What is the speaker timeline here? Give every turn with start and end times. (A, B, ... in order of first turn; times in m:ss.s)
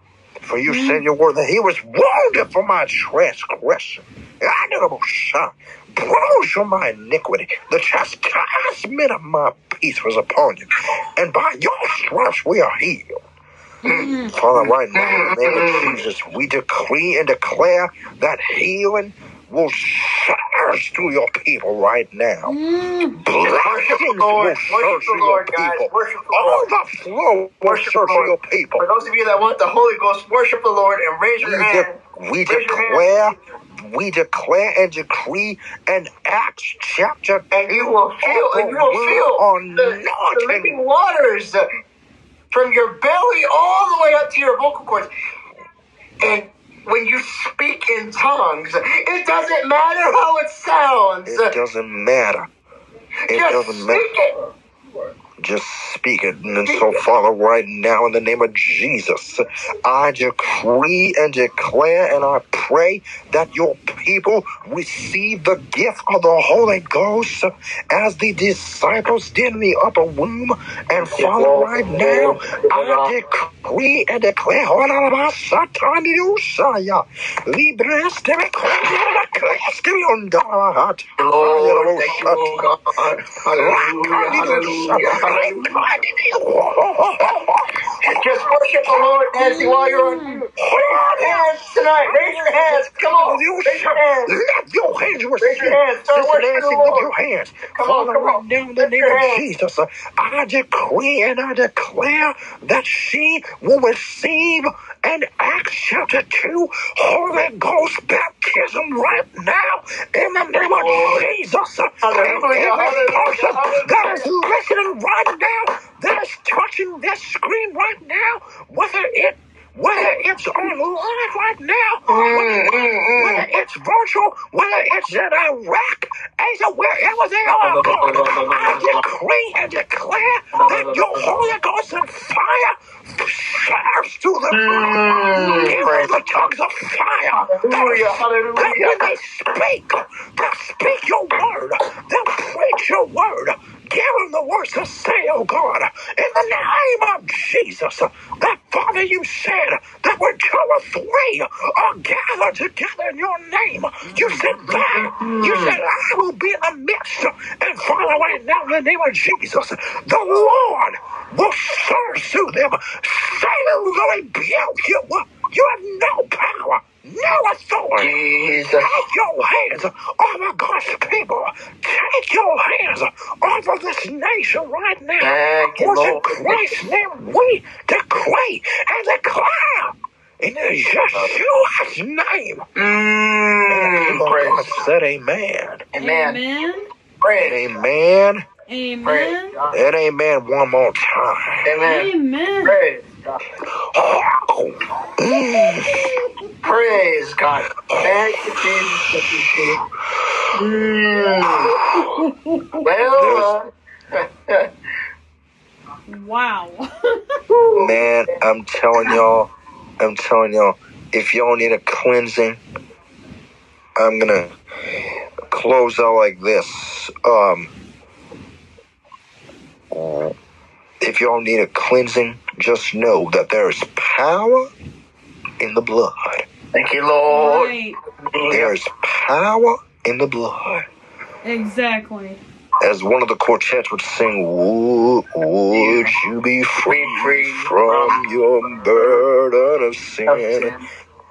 0:00.4-0:13.2 A
0:00.6-0:01.0 B
0:13.8-0:14.4 B
0:13.8-0:16.0 C
0:14.3-0:22.5 A
0:22.4-0:23.2 B
0:23.2-0:28.8 A
0:23.3-0:26.7 C
0:27.6-0:33.1 C
0:31.4-0:40.8 A
0:37.5-0:41.6 C
0:42.5-0:45.1 C
0:46.2-0:51.6 C
0:51.2-0:52.5 A
0:53.3-0:54.5 C
0:53.3-0:54.1 A
0:55.4-1:22.7 A
0:56.6-0:57.0 C
1:11.0-1:13.2 C
1:21.2-1:25.8 C
1:23.5-1:28.0 A
1:28.0-1:34.3 C
1:29.3-1:30.4 B
1:30.6-2:48.2 A
1:35.4-1:37.1 C
1:37.7-1:39.5 C
1:50.6-1:51.3 C
1:52.0-1:54.2 C
2:02.1-2:03.5 C
2:07.5-2:09.0 C
2:10.5-2:11.3 C
2:14.5-2:16.2 C
2:15.3-2:15.8 B
2:17.3-2:19.0 C
2:34.1-2:34.4 B
2:34.6-2:35.8 C
2:48.0-2:49.0 C
2:48.7-3:02.7 A
2:55.2-2:56.7 C
3:02.8-3:04.8 C
3:03.7-3:05.8 A
3:05.9-3:06.4 C
3:06.0-3:06.8 B
3:07.2-3:07.7 C
3:07.4-3:08.4 A
3:08.7-3:09.5 B
3:09.0-3:09.8 C
3:09.7-3:11.7 A
3:11.6-3:12.1 C
3:11.8-3:12.8 B
3:12.6-3:13.4 C
3:13.9-3:16.3 A
3:16.6-3:19.8 C
3:17.8-3:18.7 A
3:20.5-3:21.9 C
3:21.4-3:22.2 A
3:22.2-3:22.8 B
3:22.8-3:24.7 C
3:23.1-3:23.5 A
3:26.1-3:27.4 B
3:27.5-3:28.3 C
3:27.8-3:32.6 A
3:34.0-3:34.5 A
3:35.5-3:37.7 A
3:39.9-3:40.3 A
3:41.0-3:44.7 A
3:45.6-3:46.4 A
3:46.7-3:48.7 C
3:47.3-3:48.0 B
3:48.5-3:50.8 A
3:51.4-3:52.4 B
3:52.8-4:00.7 A
3:55.7-3:56.1 C
3:56.8-3:58.2 C
3:58.8-3:59.2 C
4:00.3-4:00.8 C